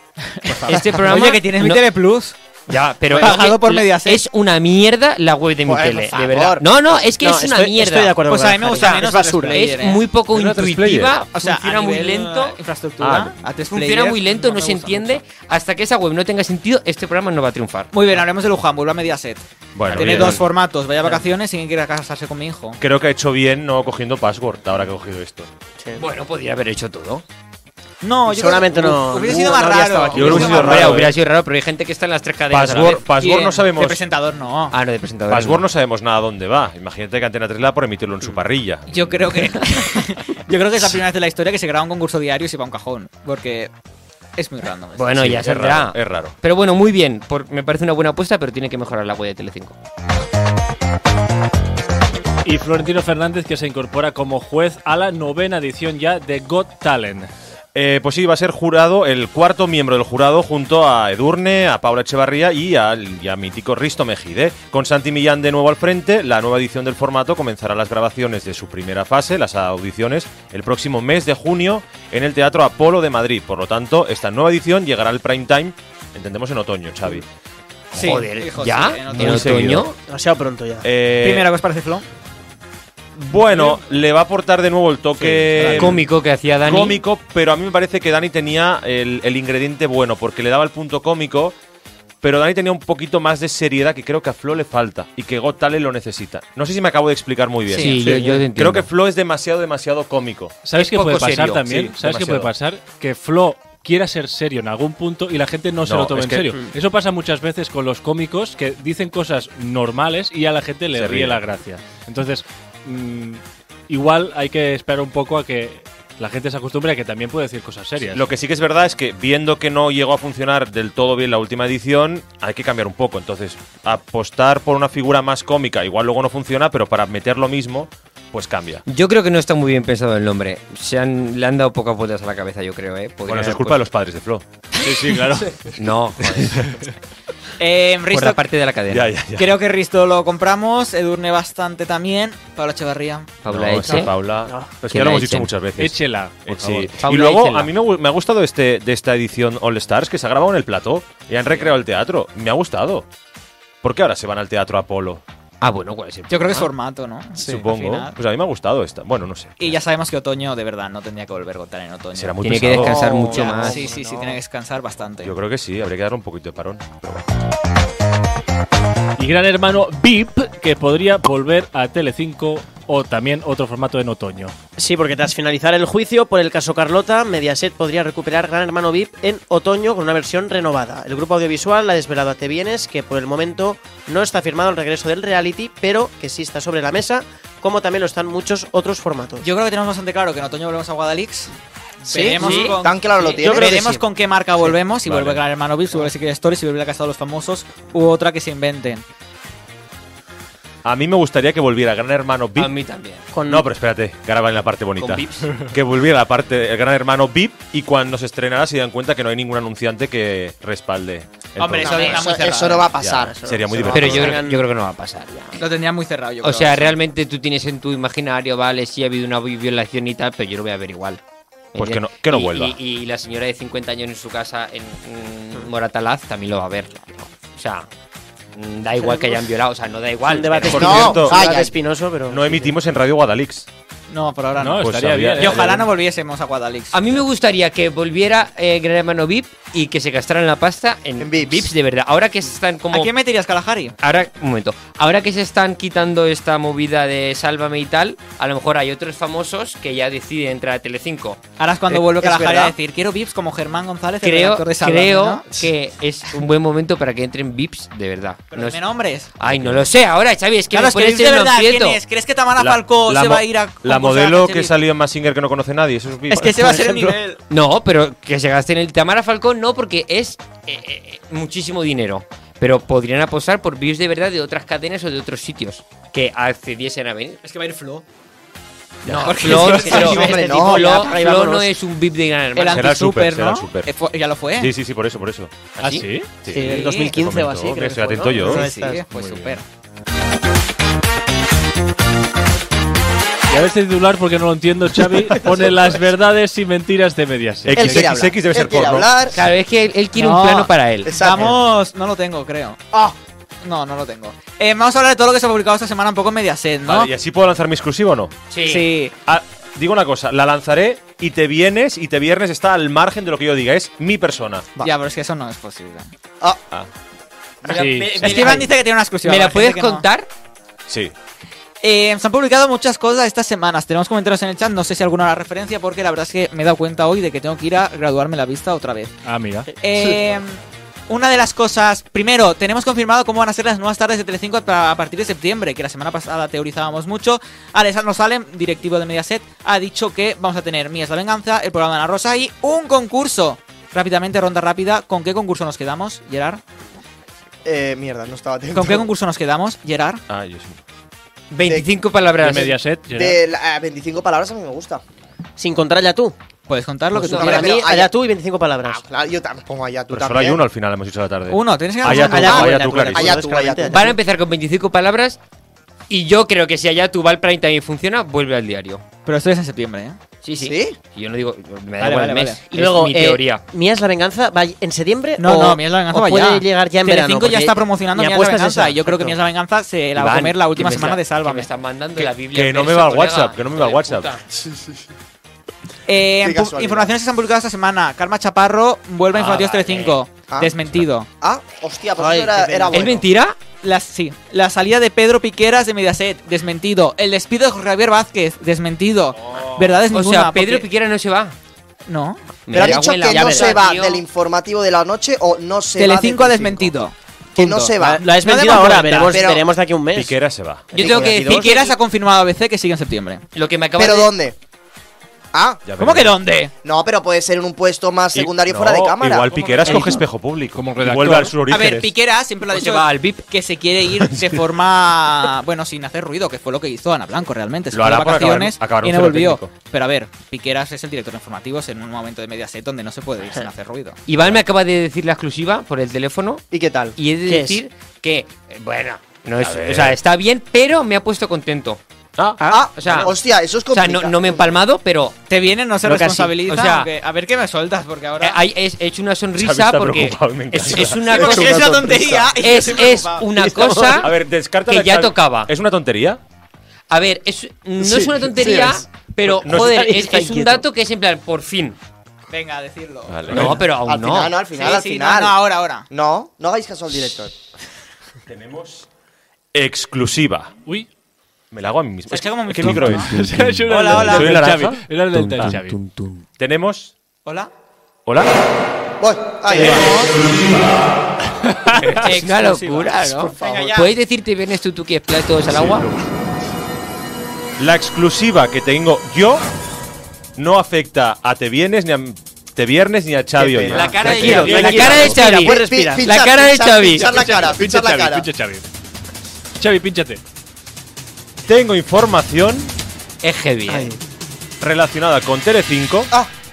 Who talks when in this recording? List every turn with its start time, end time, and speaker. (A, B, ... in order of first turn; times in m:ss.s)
0:00.3-0:02.4 A
0:00.6-0:01.8 B
0:02.7-0:08.2 B
0:03.1-0:04.2 A
0:05.6-0:06.6 C
0:07.2-0:09.7 D
0:08.3-0:10.0 A
0:08.7-0:12.6 B
0:10.3-0:11.2 E
0:11.3-0:15.1 A
0:13.0-0:13.4 E
0:13.7-0:17.9 B
0:17.9-0:22.8 A
0:19.7-0:20.5 E
0:19.9-0:20.4 B
0:22.8-0:25.5 E
0:26.0-0:27.2 B
0:28.0-0:31.0 A
0:28.2-0:31.0 D
0:30.1-0:31.2 E
0:30.2-0:33.0 B
0:32.5-0:34.0 E
0:33.2-0:34.7 A
0:34.7-0:35.6 B
0:35.3-0:39.3 E
0:38.9-0:43.7 A
0:44.4-0:45.1 A
0:44.9-0:49.8 B
0:45.1-0:46.3 E
0:52.4-0:57.3 F
0:57.7-1:17.2 E
1:17.9-1:19.6 A
1:17.9-1:19.9 B
1:19.1-1:19.9 E
1:20.1-1:20.9 D
1:20.8-1:21.5 E
1:21.2-1:22.0 A
1:23.2-1:31.5 E
1:25.2-1:25.7 D
1:25.5-1:25.9 A
1:25.6-1:27.0 B
1:32.2-1:40.6 E
1:37.7-1:38.1 A
1:37.7-1:38.9 B
1:37.8-1:38.4 D
1:40.6-1:58.2 F
1:40.8-1:41.6 B
1:41.6-1:42.5 E
1:45.8-1:46.6 E
1:50.9-1:51.4 E
1:58.0-2:08.8 E
2:08.8-2:13.8 B
2:13.2-2:14.4 E
2:14.8-2:15.7 F
2:15.8-2:16.7 B
2:17.6-2:18.4 A
2:18.1-2:19.1 B
2:18.9-2:19.5 E
2:19.4-2:23.3 A
2:23.4-2:24.2 B
2:23.5-2:33.1 E
2:23.8-2:24.8 D
2:24.9-2:25.5 B
2:25.8-2:26.9 F
2:27.0-2:27.7 B
2:33.8-2:35.2 E
2:35.6-2:36.7 B
2:36.3-2:38.1 A
2:37.4-2:39.7 E
2:39.6-2:45.3 A
2:42.1-2:43.0 E
2:42.4-2:43.8 B
2:42.8-2:44.4 C
2:45.2-2:47.2 E
2:49.2-2:54.5 F
2:54.8-3:09.5 D
3:09.4-3:11.5 A
3:12.0-3:19.0 A
3:12.1-3:12.7 D
3:12.4-3:12.8 B
3:12.4-3:13.8 C
3:13.3-3:14.0 D
3:15.0-3:15.4 E
3:20.8-3:22.7 E
3:22.6-3:23.3 B
3:23.3-3:23.7 D
3:23.5-3:32.4 E
3:25.0-3:25.6 B
3:31.6-3:32.9 A
3:31.8-3:34.2 C
3:33.0-3:34.4 E
3:33.1-3:34.6 D
3:33.9-3:35.6 B
3:35.6-3:36.9 A
3:36.4-3:41.2 B
3:41.7-3:47.9 B
3:41.8-3:42.8 E
3:48.5-3:51.2 B
3:49.0-3:49.4 D
3:50.2-3:52.8 D
3:50.7-3:51.6 E
3:50.7-3:51.7 C
3:52.3-3:53.6 E
3:54.1-3:57.0 A
3:54.6-3:55.8 F
3:54.8-3:55.9 E
3:56.9-4:03.1 B
4:01.2-4:01.7 C
4:02.9-4:03.9 A
4:04.0-4:11.4 B
4:11.6-4:15.4 A
4:12.1-4:12.7 C
4:14.2-4:18.8 B
4:18.5-4:19.3 A
4:19.4-4:22.0 B
4:19.4-4:19.9 E
4:20.7-4:24.8 A
4:22.6-4:26.7 E
4:26.3-4:27.4 A
4:26.5-4:27.1 D
4:27.5-4:37.4 B
4:37.4-4:38.0 A
4:39.0-4:42.9 B
4:39.2-4:41.1 A
4:39.4-4:41.6 D
4:39.8-4:41.1 C
4:42.5-4:44.7 A
4:42.7-4:43.9 E
4:44.6-4:48.7 E
4:45.8-4:46.3 F
4:46.5-4:49.0 D
4:46.5-4:47.1 A
4:48.4-4:49.6 A
4:49.1-4:49.6 F
4:53.5-4:58.1 F
4:57.6-4:59.2 E
4:57.7-4:59.4 C
4:59.3-5:01.5 B
5:00.1-5:02.8 A
5:01.0-5:01.6 C
5:03.6-5:07.1 A
5:06.8-5:08.3 E
5:08.5-5:08.9 B
5:08.6-5:09.1 A
5:09.2-5:14.7 E
5:14.8-5:16.1 A
5:17.6-5:17.9 C
5:17.7-5:18.4 F
5:17.7-5:18.7 D
5:18.1-5:20.0 A
5:18.1-5:18.7 B
5:19.2-5:20.3 B
5:20.9-5:21.1 E
5:21.8-5:29.1 A
5:29.2-5:29.7 F
5:29.8-5:46.6 A
5:47.6-5:49.1 C
5:48.7-5:50.2 A
5:50.3-5:50.8 E
5:51.5-5:52.8 B
5:51.6-5:51.9 C
5:52.4-5:53.4 F
5:53.1-5:55.0 C
5:55.6-5:56.3 D
5:56.7-5:57.7 A
5:57.2-5:58.1 C
5:57.2-5:59.0 D
5:57.2-5:57.8 B
5:58.9-6:00.6 C
6:00.1-6:03.4 E
6:01.5-6:03.0 A
6:02.1-6:04.2 D
6:02.3-6:04.1 C
6:03.9-6:05.4 B
6:06.1-6:09.0 B
6:09.2-6:10.2 A
6:10.4-6:13.6 B
6:10.6-6:11.0 C
6:12.0-6:12.6 A
6:12.7-6:19.4 D
6:15.4-6:21.7 A
6:20.2-6:24.4 B
6:22.4-6:24.3 E
6:24.5-6:24.8 C
6:26.1-6:31.3 A
6:26.4-6:27.1 C
6:29.4-6:30.1 B
6:30.5-6:30.7 C
6:31.4-6:33.2 C
6:32.2-6:33.2 D
6:32.9-6:33.6 B
6:33.8-6:40.9 A
6:40.1-6:41.6 B
6:42.1-6:42.4 A
6:42.7-6:44.2 B
6:42.7-6:46.9 C
6:42.7-6:43.8 D
6:46.0-6:49.4 A
6:47.6-6:48.2 C
6:47.6-6:50.4 D
6:49.3-6:49.6 C
6:50.1-6:50.9 E
6:50.9-6:53.4 A
6:51.0-6:51.7 C
6:51.0-6:51.8 B
6:51.0-6:51.7 D
6:53.5-6:54.3 B
6:54.0-6:54.6 C
6:55.5-6:55.8 C
6:55.8-6:56.4 E
6:56.0-6:56.7 A
6:56.8-7:00.1 C
6:58.3-7:02.1 E
6:59.8-7:00.2 D
7:00.7-7:01.5 F
7:01.7-7:14.2 A
7:02.7-7:03.4 B
7:04.3-7:04.6 E
7:07.9-7:09.7 E
7:14.3-7:16.6 B
7:16.7-7:17.2 C
7:17.1-7:22.0 B
7:17.4-7:17.8 D
7:19.6-7:20.2 E
7:22.6-7:22.9 D
7:22.7-7:24.8 C
7:22.9-7:23.4 B
7:23.9-7:25.4 B
7:25.5-7:28.6 A
7:26.2-7:26.5 D
7:26.4-7:27.1 B
7:28.4-7:34.3 B
7:29.6-7:31.2 E
7:31.2-7:33.5 A
7:31.3-7:32.5 C
7:33.5-7:34.3 D
7:34.2-7:36.4 E
7:34.8-7:35.7 B
7:37.1-7:42.0 B
7:38.0-7:39.0 C
7:39.6-7:40.0 E
7:39.7-7:40.8 D
7:42.5-7:43.6 A
7:43.3-7:43.8 E
7:43.5-7:44.6 B
7:44.0-7:45.6 C
7:44.8-7:46.0 A
7:46.1-7:47.5 C
7:48.5-7:49.0 E
7:49.7-7:50.7 E
7:51.7-7:57.1 E
7:52.3-7:53.4 A
7:52.8-7:56.1 F
7:53.9-7:54.6 A
7:57.4-7:57.7 A
7:58.2-7:58.5 E
7:59.2-8:00.3 C
7:59.7-8:00.3 A
8:01.9-8:06.1 B
8:02.1-8:04.1 A
8:03.6-8:03.9 C
8:05.7-8:06.1 E
8:07.8-8:09.6 E
8:10.6-8:14.6 E
8:13.6-8:16.2 D
8:13.9-8:17.3 B
8:14.1-8:14.8 C
8:14.3-8:14.7 A
8:14.4-8:15.2 F
8:15.4-8:18.5 C
8:17.3-8:18.8 F
8:19.8-8:20.4 F
8:21.7-8:22.9 E
8:23.4-8:24.1 B
8:23.9-8:24.1 D
8:24.8-8:26.3 E